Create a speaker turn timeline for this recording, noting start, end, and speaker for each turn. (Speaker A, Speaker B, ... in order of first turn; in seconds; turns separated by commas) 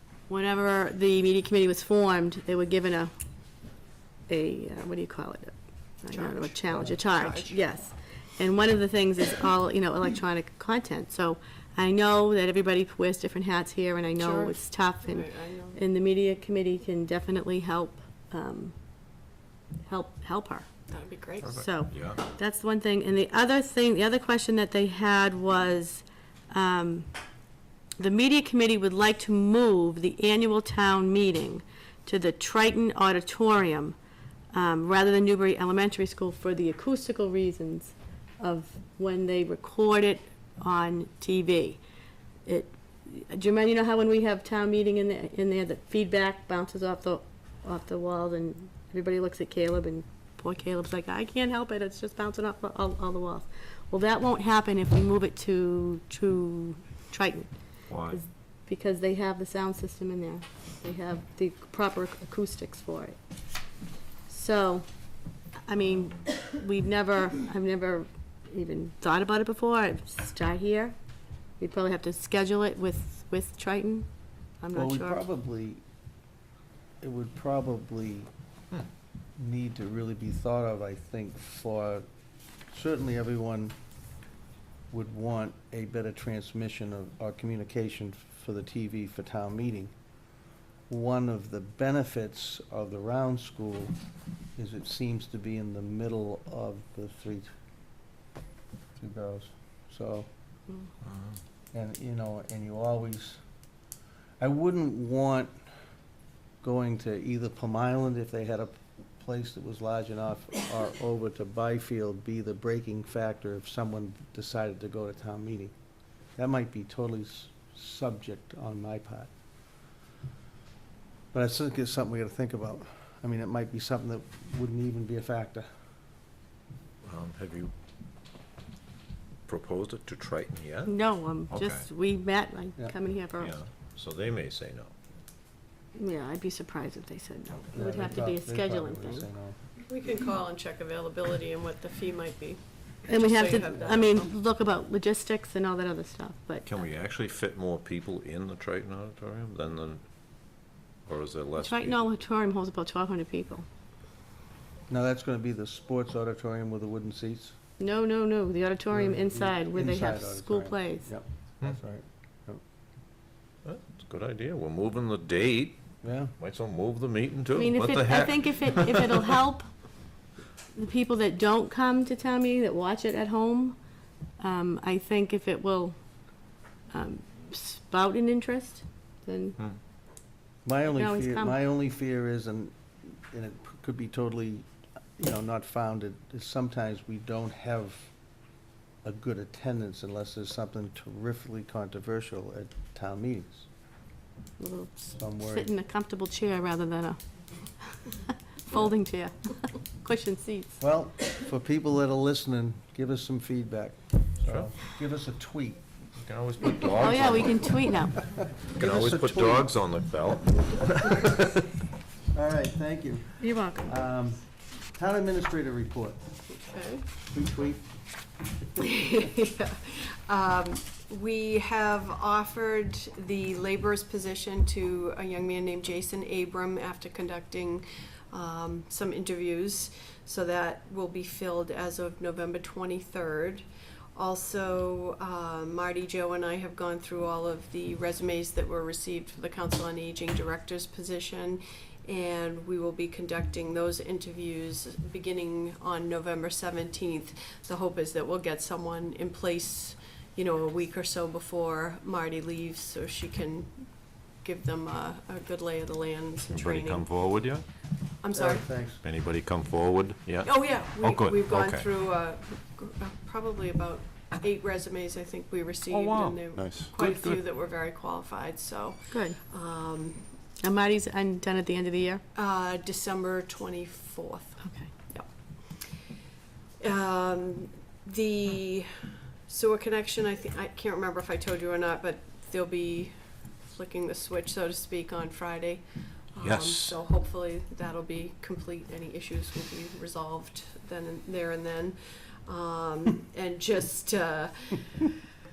Speaker A: 0.3-3.1, Speaker A: 4.3-18.8, Speaker B: 6.1-7.6, Speaker B: 14.2-15.8, Speaker A: 19.9-20.7, Speaker B: 20.9-21.6, Speaker A: 21.5-27.1, Speaker C: 21.5-22.2, Speaker A: 28.0-34.0, Speaker A: 34.5-41.8, Speaker A: 42.5-57.5, Speaker C: 57.9-58.2, Speaker A: 58.1-63.2, Speaker A: 64.3-64.9, Speaker A: 65.6-70.9, Speaker A: 71.6-74.1, Speaker A: 74.6-75.2, Speaker D: 74.7-75.8, Speaker D: 77.0-78.3, Speaker D: 79.4-82.0, Speaker D: 82.7-83.7, Speaker D: 84.9-89.9, Speaker D: 90.9-93.9, Speaker D: 94.6-97.5, Speaker D: 99.0-100.3, Speaker C: 101.1-101.3, Speaker D: 101.7-103.4, Speaker D: 104.4-105.5, Speaker D: 106.6-115.7, Speaker D: 116.4-119.3, Speaker D: 121.3-125.7, Speaker C: 127.0-127.7, Speaker C: 129.5-131.0, Speaker A: 130.9-133.6, Speaker C: 131.5-131.9, Speaker C: 133.4-134.9, Speaker A: 136.0-139.3, Speaker D: 137.7-139.6, Speaker B: 139.9-144.3, Speaker A: 143.1-146.7, Speaker C: 146.7-150.0, Speaker C: 151.1-152.0, Speaker A: 151.6-153.7, Speaker D: 154.9-157.6, Speaker A: 157.8-161.1, Speaker D: 158.9-162.6, Speaker C: 163.7-165.8, Speaker D: 166.0-166.3, Speaker C: 166.4-169.3, Speaker A: 167.6-169.7, Speaker A: 170.8-173.8, Speaker A: 174.4-176.0, Speaker A: 176.9-179.6, Speaker D: 180.7-184.7, Speaker A: 180.9-181.6, Speaker D: 185.2-188.1, Speaker D: 189.0-193.7, Speaker A: 194.6-197.2, Speaker D: 195.2-195.7, Speaker A: 197.9-200.8, Speaker D: 200.8-205.8, Speaker C: 206.2-207.9, Speaker A: 207.0-208.2, Speaker D: 208.8-209.7, Speaker C: 208.8-211.5, Speaker D: 212.3-216.2, Speaker A: 213.4-213.9, Speaker B: 216.5-217.1, Speaker D: 217.3-217.9, Speaker B: 218.8-233.6, Speaker B: 234.2-257.1, Speaker C: 256.5-257.6, Speaker B: 258.2-258.7, Speaker D: 258.4-259.0, Speaker C: 259.0-261.9, Speaker B: 260.4-270.3, Speaker C: 265.9-267.4, Speaker A: 269.1-269.4, Speaker A: 270.6-272.2, Speaker B: 272.4-276.1, Speaker A: 274.6-274.9, Speaker B: 276.8-295.1, Speaker C: 286.4-287.0